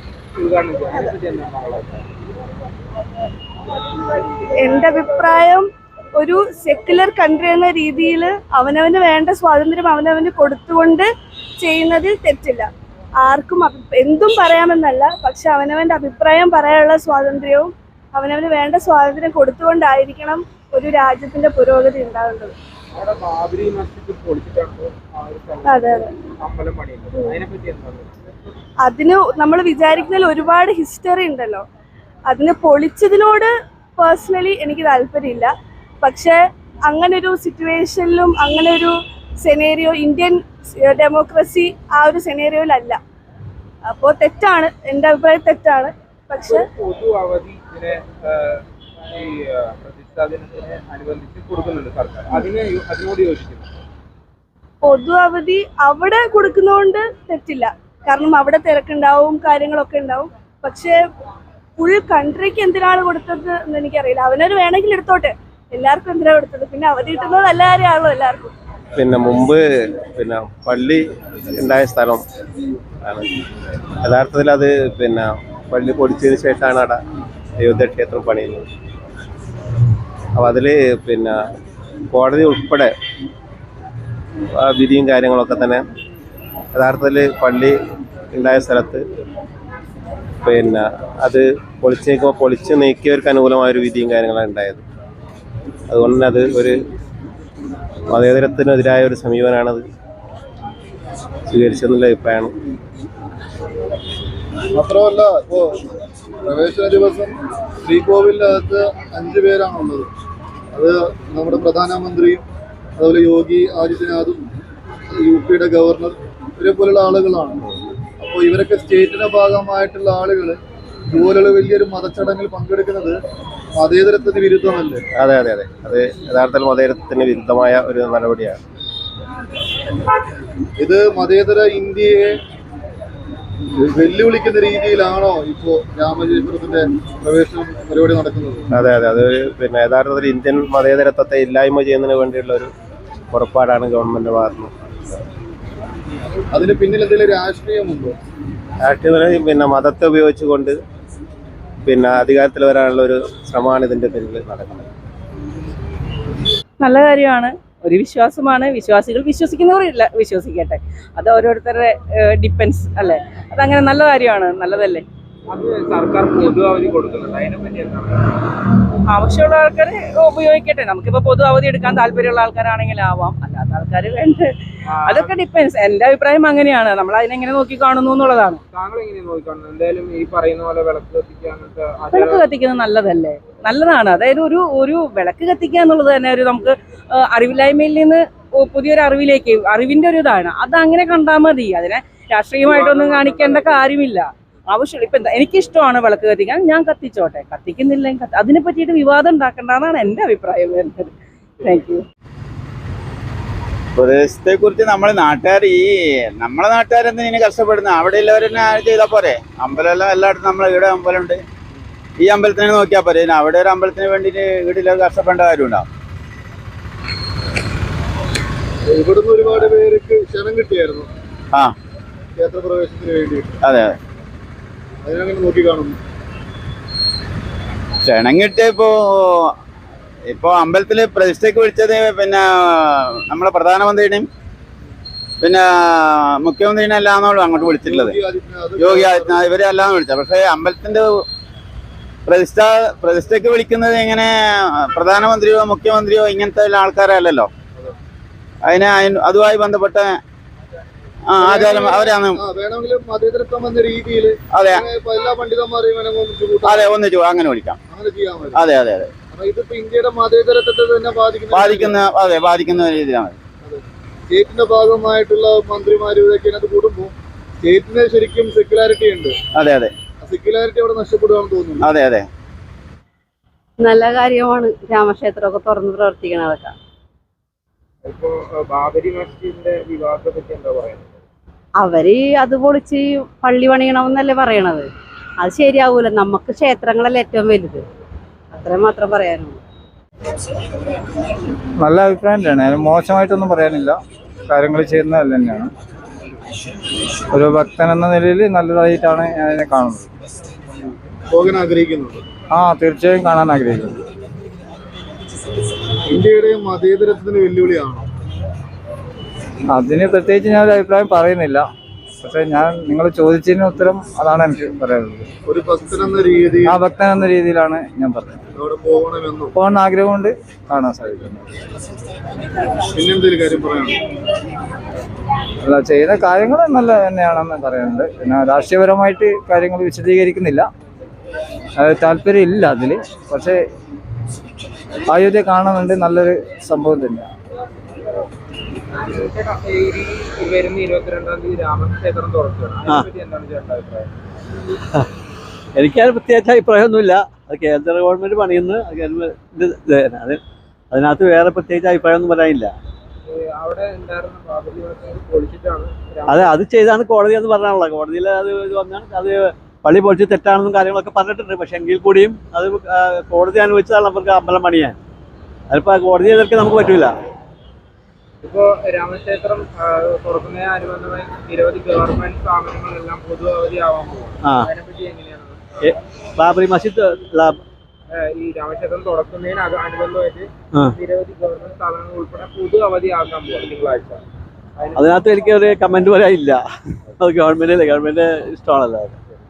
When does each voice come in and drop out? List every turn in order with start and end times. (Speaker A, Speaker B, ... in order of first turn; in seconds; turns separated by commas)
Speaker A: 0.4-2.1, Speaker B: 4.6-5.7, Speaker B: 6.2-11.1, Speaker B: 11.6-12.7, Speaker B: 13.2-22.6, Speaker A: 22.9-28.2, Speaker B: 25.7-26.1, Speaker B: 28.8-31.6, Speaker B: 32.3-43.0, Speaker B: 43.9-46.6, Speaker A: 46.4-53.7, Speaker B: 54.8-61.0, Speaker B: 61.8-68.5, Speaker C: 69.0-71.0, Speaker C: 71.5-72.2, Speaker C: 73.0-73.3, Speaker C: 74.0-77.0, Speaker C: 77.6-78.7, Speaker C: 80.4-81.4, Speaker C: 82.1-82.9, Speaker C: 84.6-85.8, Speaker C: 86.7-87.8, Speaker C: 88.3-89.0, Speaker C: 90.4-94.8, Speaker C: 95.9-96.8, Speaker C: 98.1-99.8, Speaker C: 101.5-102.5, Speaker D: 104.8-105.7, Speaker D: 106.5-110.1, Speaker D: 110.7-112.4, Speaker D: 113.0-114.5, Speaker D: 115.1-117.7, Speaker D: 118.2-120.6, Speaker D: 121.1-123.2, Speaker D: 123.8-125.0, Speaker C: 125.2-128.6, Speaker D: 130.8-132.4, Speaker D: 133.8-138.7, Speaker C: 138.7-142.7, Speaker C: 143.3-145.2, Speaker D: 146.5-148.2, Speaker C: 148.8-150.8, Speaker C: 151.8-154.9, Speaker E: 156.8-165.0, Speaker A: 165.5-168.4, Speaker E: 169.1-174.5, Speaker A: 174.9-175.4, Speaker E: 175.1-178.6, Speaker A: 178.7-182.5, Speaker E: 182.1-186.8, Speaker E: 187.3-202.0, Speaker A: 192.6-193.9, Speaker F: 204.0-211.4, Speaker F: 212.2-215.9, Speaker D: 218.9-221.1, Speaker D: 222.4-223.6, Speaker D: 225.0-226.0, Speaker F: 228.1-229.2, Speaker F: 230.3-234.3, Speaker F: 235.4-238.2, Speaker D: 237.6-239.5, Speaker F: 238.8-241.2, Speaker F: 242.3-247.5, Speaker F: 248.7-250.2, Speaker F: 251.4-252.4, Speaker D: 251.4-257.0, Speaker F: 254.5-254.9, Speaker F: 256.6-257.8, Speaker D: 257.9-258.6, Speaker F: 258.6-259.1, Speaker D: 259.3-262.0, Speaker F: 261.5-263.4, Speaker D: 263.6-269.3, Speaker F: 269.6-269.9, Speaker D: 270.2-271.9, Speaker F: 271.9-272.3, Speaker G: 273.8-276.8, Speaker A: 278.0-281.2, Speaker G: 281.8-287.9, Speaker G: 288.5-289.6, Speaker H: 291.8-295.7, Speaker H: 297.3-300.1, Speaker D: 301.3-302.2, Speaker H: 302.5-304.0, Speaker D: 306.1-308.1, Speaker H: 309.7-311.7, Speaker H: 312.2-315.3, Speaker D: 315.5-316.8, Speaker H: 316.7-318.4, Speaker D: 318.6-319.5, Speaker H: 319.6-321.5, Speaker D: 322.9-324.0, Speaker H: 325.6-330.7, Speaker H: 331.8-333.6, Speaker H: 335.1-337.3, Speaker A: 339.0-344.1, Speaker I: 345.8-350.4, Speaker I: 350.9-352.7, Speaker A: 353.2-356.6, Speaker I: 356.3-365.0, Speaker I: 365.7-367.1, Speaker A: 368.4-375.6, Speaker I: 374.4-374.7, Speaker I: 375.8-377.6, Speaker A: 378.1-384.2, Speaker A: 384.8-385.3, Speaker I: 385.0-386.6, Speaker I: 387.2-389.2